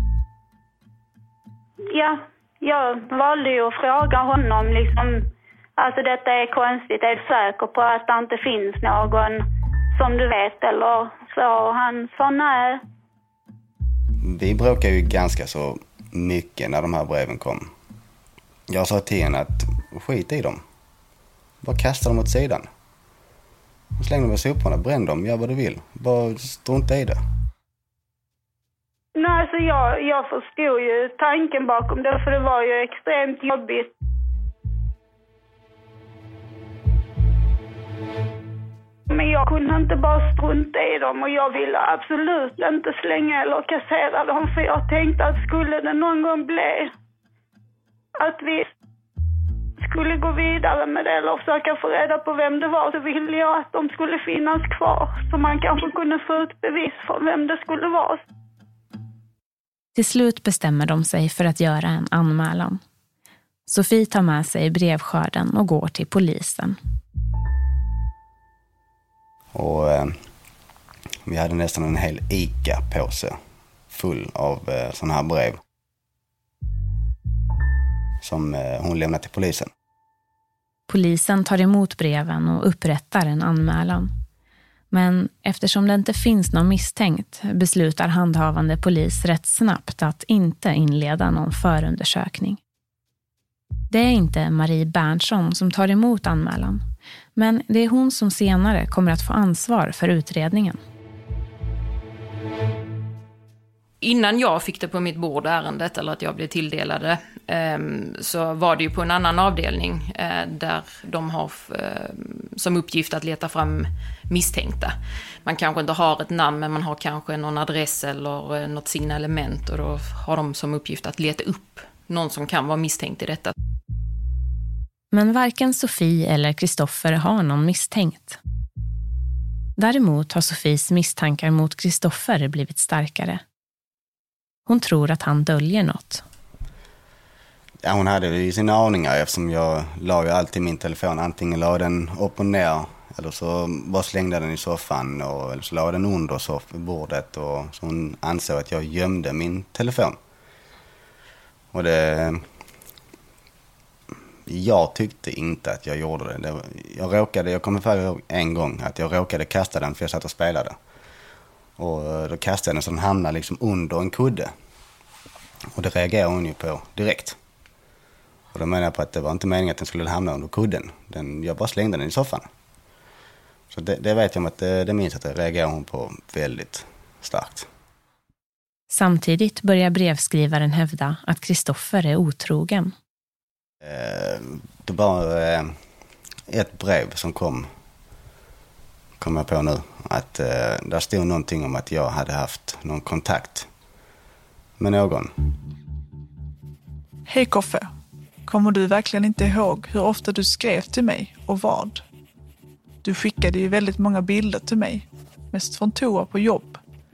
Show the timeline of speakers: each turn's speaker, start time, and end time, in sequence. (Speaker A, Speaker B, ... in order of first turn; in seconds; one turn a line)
Speaker A: 1.9-5.2
Speaker A: 5.8-9.4
Speaker A: 9.9-12.8
Speaker B: 14.2-17.7
Speaker B: 18.7-20.6
Speaker B: 21.6-22.6
Speaker B: 24.0-27.2
Speaker A: 29.1-33.9
Speaker A: 39.1-46.9
Speaker A: 48.2-48.7
Speaker A: 49.8-58.2
Speaker C: 59.9-62.8
Speaker C: 63.7-66.8
Speaker B: 69.5-70.2
Speaker B: 71.2-73.4
Speaker B: 73.9-75.6
Speaker B: 78.2-79.7
Speaker C: 80.9-84.1
Speaker C: 84.9-92.6
Speaker C: 93.9-96.8
Speaker C: 97.3-100.8
Speaker D: 104.0-123.5
Speaker C: 125.1-128.4
Speaker C: 129.8-133.4
Speaker C: 134.7-136.2
Speaker B: 137.8-150.2
Speaker B: 151.7-152.5
Speaker B: 154.4-160.8
Speaker B: 161.8-164.5
Speaker B: 165.7-167.4
Speaker B: 168.5-172.5
Speaker B: 173.7-177.7
Speaker C: 178.9-182.9
Speaker B: 183.8-185.7
Speaker B: 186.5-187.7
Speaker B: 189.2-193.7
Speaker B: 194.8-195.4
Speaker E: 197.2-197.9
Speaker E: 198.4-202.0
Speaker E: 203.0-206.8